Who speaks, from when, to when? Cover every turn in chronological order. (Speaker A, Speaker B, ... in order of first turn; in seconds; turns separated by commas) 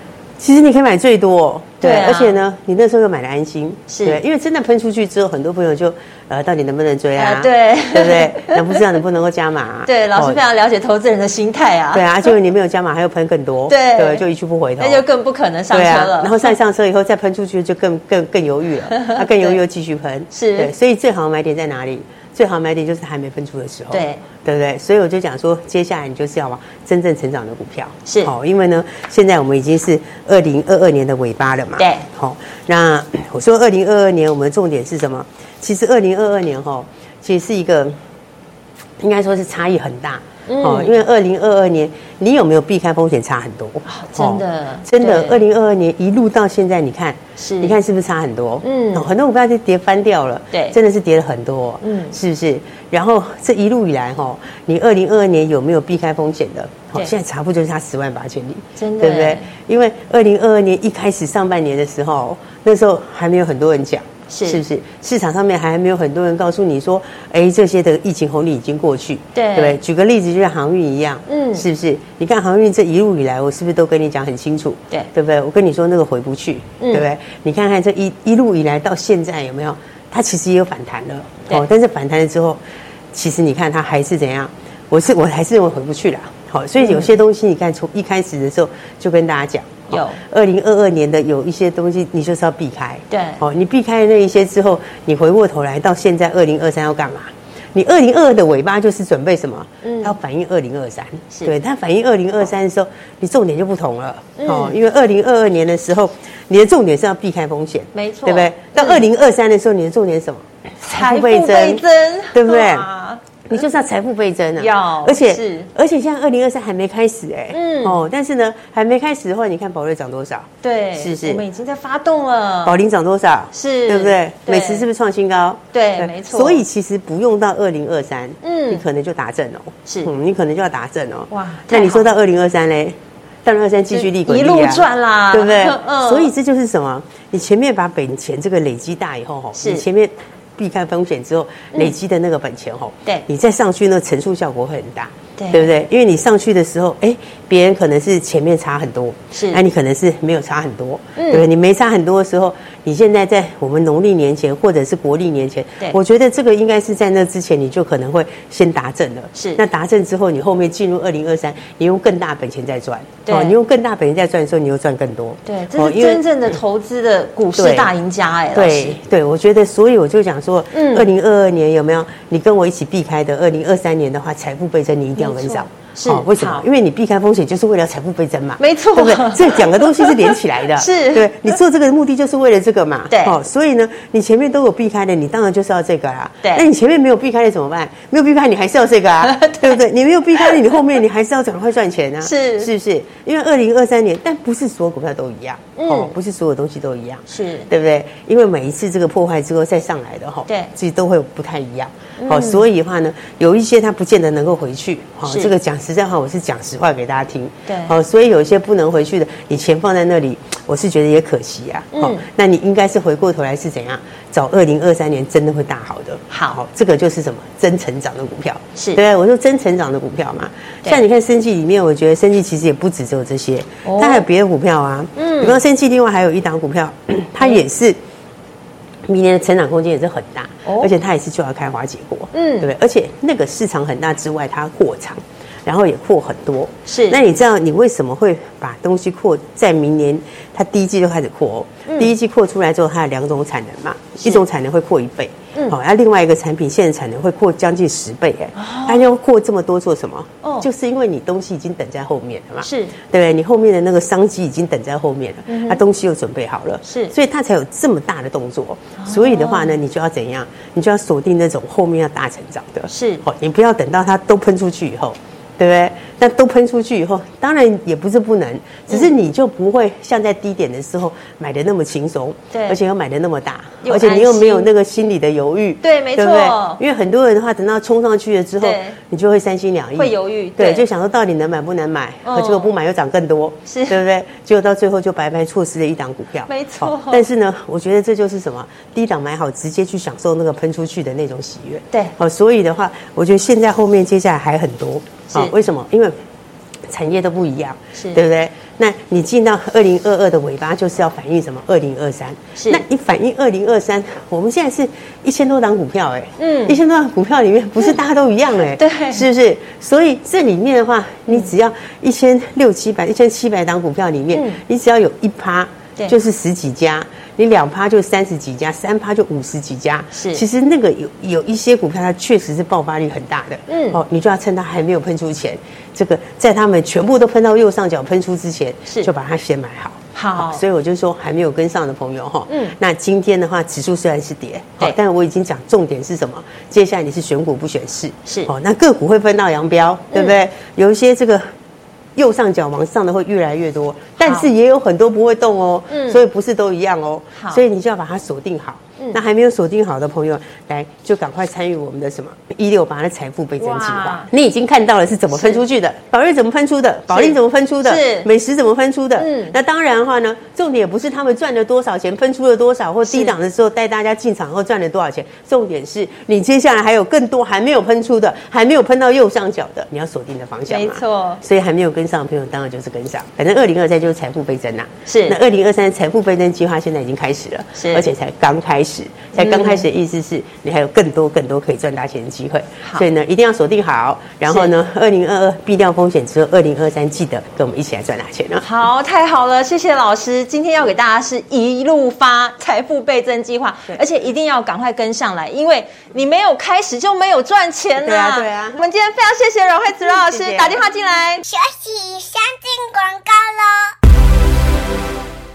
Speaker A: 0.4-10.4, Speaker B: 1.8-2.4, Speaker B: 3.9-4.2, Speaker B: 7.2-8.8, Speaker B: 9.8-12.1, Speaker A: 11.9-15.0, Speaker B: 13.7-14.2, Speaker B: 14.8-16.5, Speaker A: 15.7-37.9, Speaker B: 18.9-19.6, Speaker B: 20.3-20.7, Speaker B: 23.9-24.2, Speaker B: 28.1-28.3, Speaker B: 31.8-32.1, Speaker A: 39.0-82.6, Speaker B: 40.5-40.9, Speaker B: 43.9-45.4, Speaker B: 47.4-47.8, Speaker B: 48.6-49.1, Speaker B: 50.5-50.8, Speaker B: 51.8-52.1, Speaker B: 58.8-59.5, Speaker B: 64.3-64.6, Speaker B: 69.3-69.8, Speaker B: 71.3-71.7, Speaker B: 76.8-77.0, Speaker A: 83.1-112.9, Speaker B: 86.8-87.2, Speaker B: 89.9-90.2, Speaker B: 93.1-93.4, Speaker B: 99.8-100.2, Speaker B: 104.4-104.8, Speaker B: 107.9-109.0, Speaker B: 110.8-113.2, Speaker A: 113.5-121.4, Speaker B: 114.6-115.7, Speaker B: 117.5-118.0, Speaker B: 120.6-122.8, Speaker A: 122.6-166.3, Speaker B: 123.5-124.8, Speaker B: 125.7-126.6, Speaker B: 128.4-128.8, Speaker B: 129.8-130.1, Speaker B: 131.3-132.1, Speaker B: 133.9-136.3, Speaker B: 139.5-139.8, Speaker B: 145.4-145.7, Speaker B: 149.3-149.6, Speaker B: 151.2-151.4, Speaker B: 159.3-159.6, Speaker B: 163.2-163.5, Speaker B: 165.4-169.0, Speaker A: 167.5-167.9, Speaker A: 168.5-228.0, Speaker B: 170.7-171.1, Speaker B: 175.2-176.6, Speaker B: 178.6-181.5, Speaker B: 183.1-183.3, Speaker B: 189.2-189.8, Speaker B: 192.2-192.7, Speaker B: 195.8-196.1, Speaker B: 197.3-197.7, Speaker B: 202.2-202.7, Speaker B: 205.2-205.5, Speaker B: 207.7-207.9, Speaker B: 211.9-212.2, Speaker B: 216.3-216.6, Speaker B: 218.8-219.0, Speaker B: 223.8-224.2, Speaker B: 225.2-225.6, Speaker A: 229.1-296.1, Speaker B: 230.6-230.9, Speaker B: 232.3-232.7, Speaker B: 236.9-237.2, Speaker B: 241.9-242.1, Speaker B: 248.6-249.0, Speaker B: 250.4-250.7, Speaker B: 252.6-252.9, Speaker B: 255.5-255.8, Speaker B: 256.8-257.1, Speaker B: 259.0-259.7, Speaker B: 262.9-263.2, Speaker B: 272.5-272.8, Speaker B: 273.8-274.7, Speaker B: 275.8-276.8, Speaker B: 278.6-279.0, Speaker B: 279.9-280.9, Speaker B: 282.2-282.7, Speaker B: 283.7-284.0, Speaker B: 286.5-287.2, Speaker B: 295.3-295.5, Speaker A: 296.9-341.4, Speaker B: 297.9-298.2, Speaker B: 302.6-302.8, Speaker B: 306.4-306.8, Speaker B: 308.8-309.3, Speaker B: 314.3-314.6, Speaker B: 320.1-320.4, Speaker B: 323.7-324.0, Speaker B: 330.1-330.6, Speaker B: 332.5-332.8, Speaker B: 338.2-338.5, Speaker A: 342.1-388.6, Speaker B: 344.2-344.5, Speaker B: 345.9-346.2, Speaker B: 347.4-347.6, Speaker B: 353.6-354.3, Speaker B: 355.3-355.6, Speaker B: 357.1-358.3, Speaker B: 359.2-359.6, Speaker B: 363.1-363.3, Speaker B: 370.7-371.4, Speaker B: 375.1-375.4, Speaker B: 377.8-378.1, Speaker B: 379.4-379.8, Speaker B: 384.5-384.7, Speaker B: 388.6-401.4, Speaker A: 398.0-398.8, Speaker A: 400.0-400.8, Speaker C: 401.4-403.9